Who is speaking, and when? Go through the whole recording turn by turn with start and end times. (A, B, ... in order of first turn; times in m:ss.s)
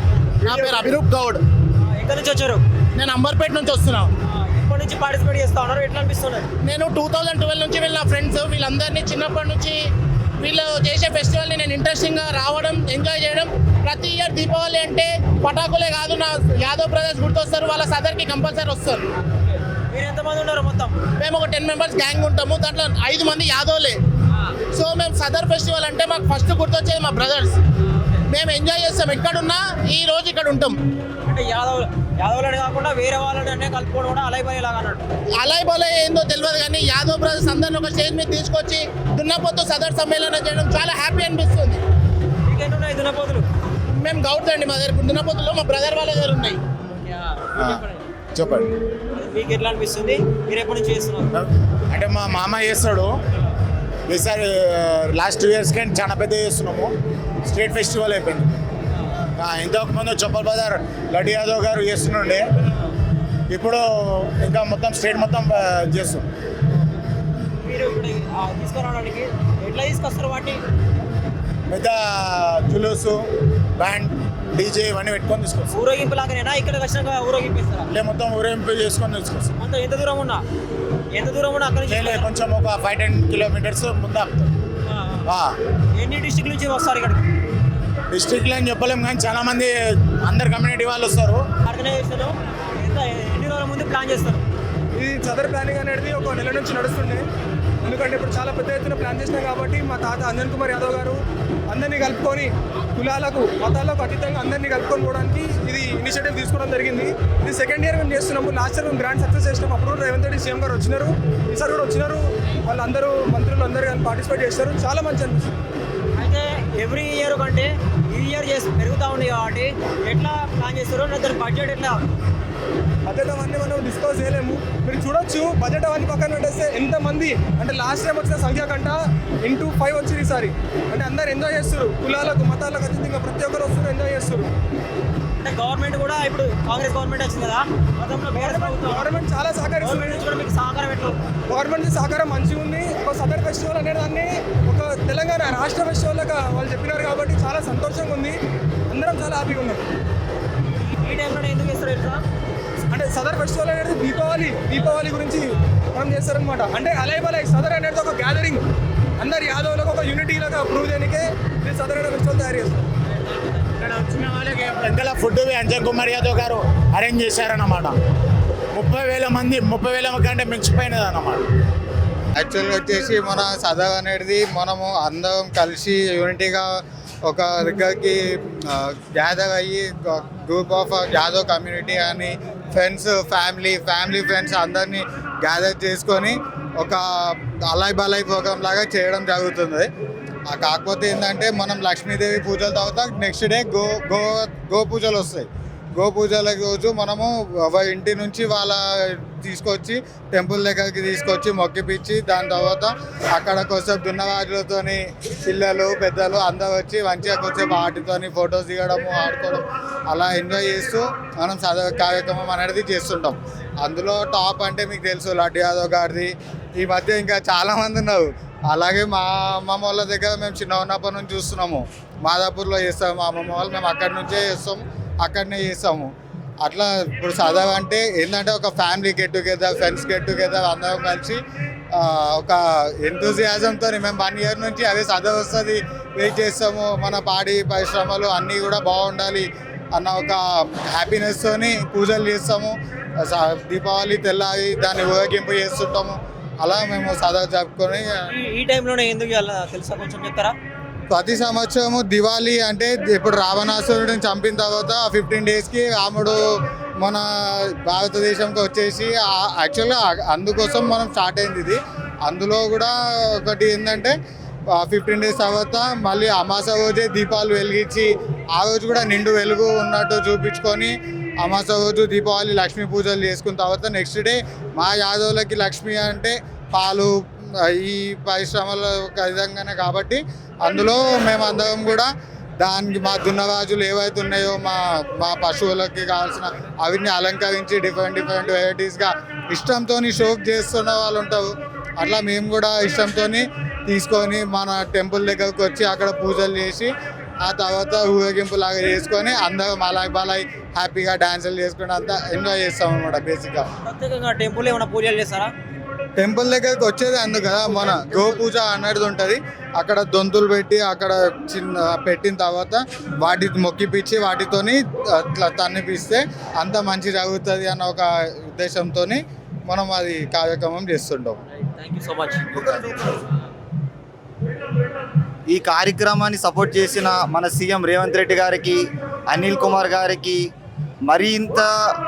0:00.4-0:01.4 A
0:00.5-0:00.8 B
0:01.8-0:02.6 B
0:02.9-0:04.1 A
0:04.3-0:06.4 B
0:06.6-0:09.9 A
0:10.4-0:19.0 A
0:19.9-0:21.0 B
0:21.2-0:24.0 A
0:24.7-0:27.6 A
0:27.9-0:28.2 B
0:28.3-0:30.8 A
0:31.2-0:35.0 B
0:35.4-0:41.8 A
0:42.4-0:43.5 B
0:44.0-0:46.6 A
0:47.0-0:48.0 B
0:48.4-0:48.7 C
0:49.1-0:51.3 B
0:51.4-0:53.1 C
0:54.1-0:56.9 C
0:57.5-0:58.6 C
0:59.4-1:02.4 C
1:03.5-1:06.3 C
1:07.6-1:10.6 B
1:11.7-1:13.2 C
1:13.8-1:15.7 C
1:15.7-1:17.9 B
1:17.9-1:19.5 C
1:19.6-1:20.4 B
1:21.2-1:22.3 B
1:21.9-1:24.5 C
1:24.9-1:25.2 B
1:25.3-1:25.5 C
1:26.0-1:27.2 B
1:28.1-1:31.4 C
1:31.6-1:34.4 B
1:35.0-1:37.3 D
1:37.8-1:55.6 D
1:56.1-2:02.0 B
2:03.1-2:14.5 D
2:15.4-2:19.1 B
2:18.4-2:20.3 D
2:19.8-2:21.2 B
2:21.5-2:29.8 D
2:30.8-2:32.2 B
2:32.9-2:38.6 D
2:39.2-2:42.8 D
2:43.8-2:48.0 C
2:48.7-2:51.4 C
2:52.4-3:09.9 E
3:10.5-3:46.1 E
3:46.6-3:51.4 E
3:51.9-4:08.3 E
4:08.3-4:10.6 B
4:11.1-4:16.5 E
4:17.0-4:24.2 E
4:24.7-4:56.9 E
4:57.4-5:03.7 E
5:03.8-5:05.5 B
5:06.2-5:21.4 E
5:21.6-5:23.2 B
5:25.5-5:30.5 F
5:31.1-5:31.7 F